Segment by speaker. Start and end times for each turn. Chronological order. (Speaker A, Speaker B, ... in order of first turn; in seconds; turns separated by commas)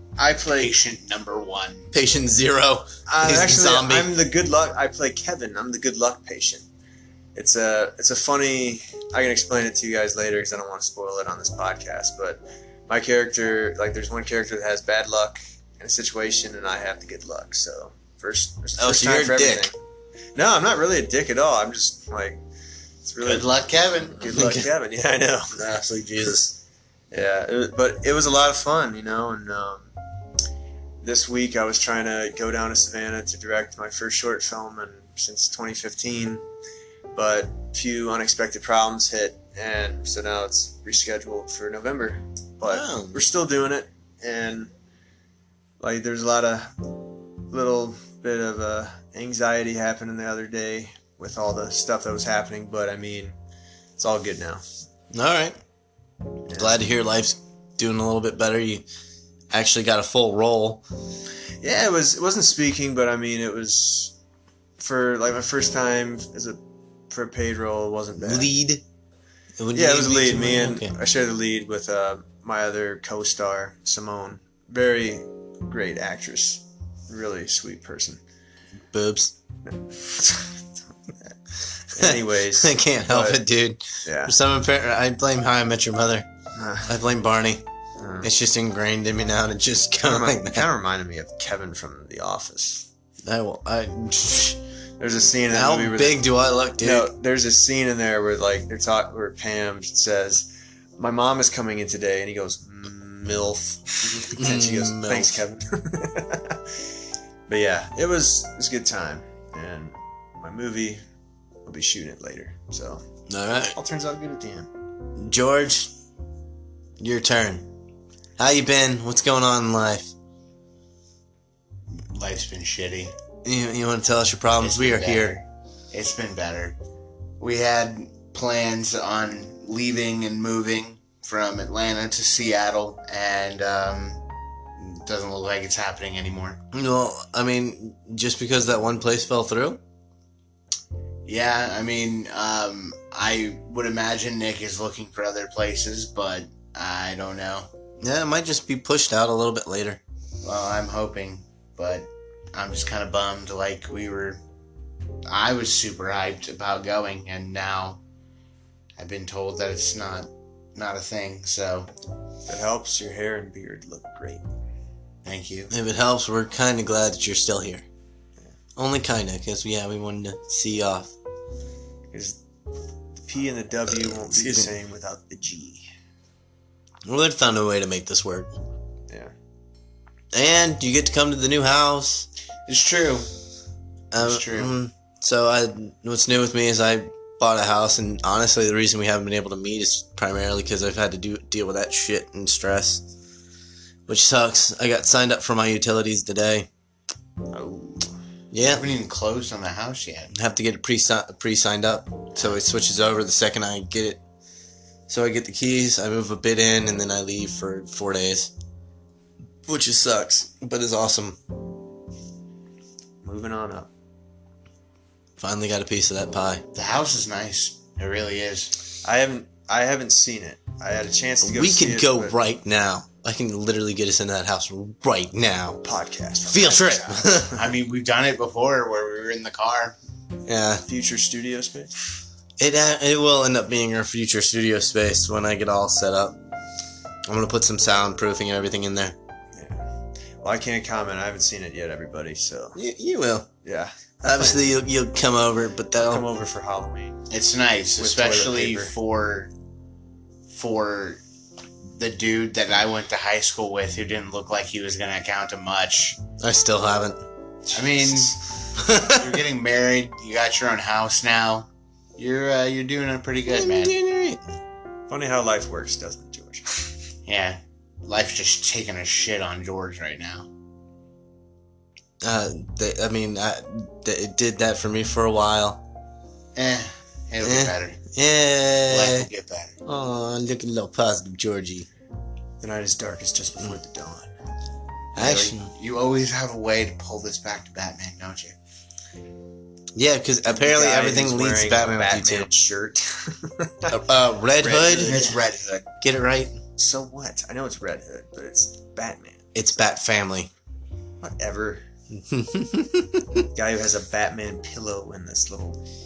Speaker A: 0.2-0.7, Speaker B: 0.5-1.9, Speaker C: 1.9-4.1, Speaker A: 3.1-6.6, Speaker A: 7.3-19.7, Speaker C: 18.8-19.7, Speaker A: 20.3-22.4, Speaker A: 23.0-23.6, Speaker B: 23.2-24.7, Speaker A: 24.2-25.6, Speaker C: 24.3-24.7, Speaker C: 25.5-26.6, Speaker A: 27.1-29.9, Speaker A: 31.0-36.4, Speaker A: 37.1-44.7, Speaker C: 42.6-43.2, Speaker A: 45.8-46.7, Speaker A: 47.5-53.4, Speaker A: 54.0-54.6, Speaker C: 55.1-55.6, Speaker A: 56.5-56.8, Speaker C: 56.5-58.8, Speaker C: 59.5-60.8, Speaker A: 61.6-64.1, Speaker A: 64.8-66.6, Speaker A: 67.1-68.5, Speaker C: 68.2-68.8, Speaker C: 69.6-70.9, Speaker A: 69.7-78.2, Speaker C: 78.9-79.3, Speaker A: 79.6-80.6, Speaker A: 81.9-83.4, Speaker C: 82.0-86.3, Speaker A: 84.0-84.3, Speaker A: 86.5-86.9, Speaker C: 86.8-87.6, Speaker A: 88.0-88.3, Speaker C: 88.2-90.7, Speaker A: 90.0-92.9, Speaker C: 93.2-94.6, Speaker A: 95.0-96.3, Speaker C: 95.5-97.1, Speaker A: 96.8-106.6, Speaker C: 104.2-105.4, Speaker A: 107.5-111.0, Speaker A: 111.6-113.0, Speaker C: 113.3-113.7, Speaker A: 113.7-114.7, Speaker C: 115.2-115.9, Speaker C: 117.0-117.7, Speaker C: 118.4-120.1, Speaker B: 122.0-123.1, Speaker C: 123.4-125.4, Speaker B: 124.6-126.8, Speaker B: 127.4-134.2, Speaker B: 134.8-136.6, Speaker C: 136.7-139.8, Speaker B: 141.2-147.7, Speaker C: 148.0-150.0, Speaker B: 150.4-154.4, Speaker B: 155.3-158.0, Speaker B: 159.0-161.9, Speaker A: 162.5-164.4, Speaker B: 165.2-165.7, Speaker C: 165.7-167.8, Speaker C: 168.8-171.1, Speaker A: 172.1-172.4, Speaker A: 173.2-175.8, Speaker C: 173.9-174.7, Speaker C: 177.1-178.5, Speaker C: 180.3-182.3, Speaker B: 182.7-183.3, Speaker C: 184.1-193.0, Speaker B: 184.2-184.7, Speaker C: 194.1-196.7, Speaker A: 197.5-198.2, Speaker C: 198.5-198.8, Speaker B: 198.6-200.3, Speaker C: 200.3-204.2, Speaker C: 205.1-208.5, Speaker C: 209.7-211.4, Speaker A: 213.2-213.9, Speaker C: 215.4-216.6, Speaker B: 216.7-218.7, Speaker A: 219.0-222.3, Speaker C: 221.4-225.8, Speaker A: 225.8-227.6, Speaker C: 226.5-227.5, Speaker B: 227.5-230.0, Speaker C: 230.5-230.8, Speaker A: 230.8-231.9, Speaker C: 232.6-236.4, Speaker C: 237.2-239.2, Speaker A: 239.5-239.9, Speaker A: 240.4-242.8, Speaker C: 242.7-243.5, Speaker A: 243.6-244.7, Speaker C: 244.2-246.2, Speaker A: 246.0-247.2, Speaker B: 247.3-249.5, Speaker A: 248.0-248.9, Speaker B: 250.5-251.2, Speaker B: 251.9-256.2, Speaker C: 256.4-257.2, Speaker B: 257.7-263.9, Speaker C: 258.8-259.2, Speaker C: 263.5-264.4, Speaker A: 265.1-266.9, Speaker B: 267.2-270.5, Speaker C: 272.2-275.8, Speaker B: 276.5-278.0, Speaker C: 277.4-279.3, Speaker B: 278.9-279.8, Speaker C: 279.8-281.9, Speaker A: 282.6-284.3, Speaker C: 285.1-285.7, Speaker B: 285.1-288.6, Speaker C: 289.9-292.5, Speaker A: 290.4-295.4, Speaker C: 293.9-295.2, Speaker B: 294.9-295.9, Speaker C: 296.0-296.6, Speaker A: 296.8-299.5, Speaker C: 299.5-300.5, Speaker A: 301.2-301.8, Speaker C: 302.1-303.4, Speaker A: 303.5-305.8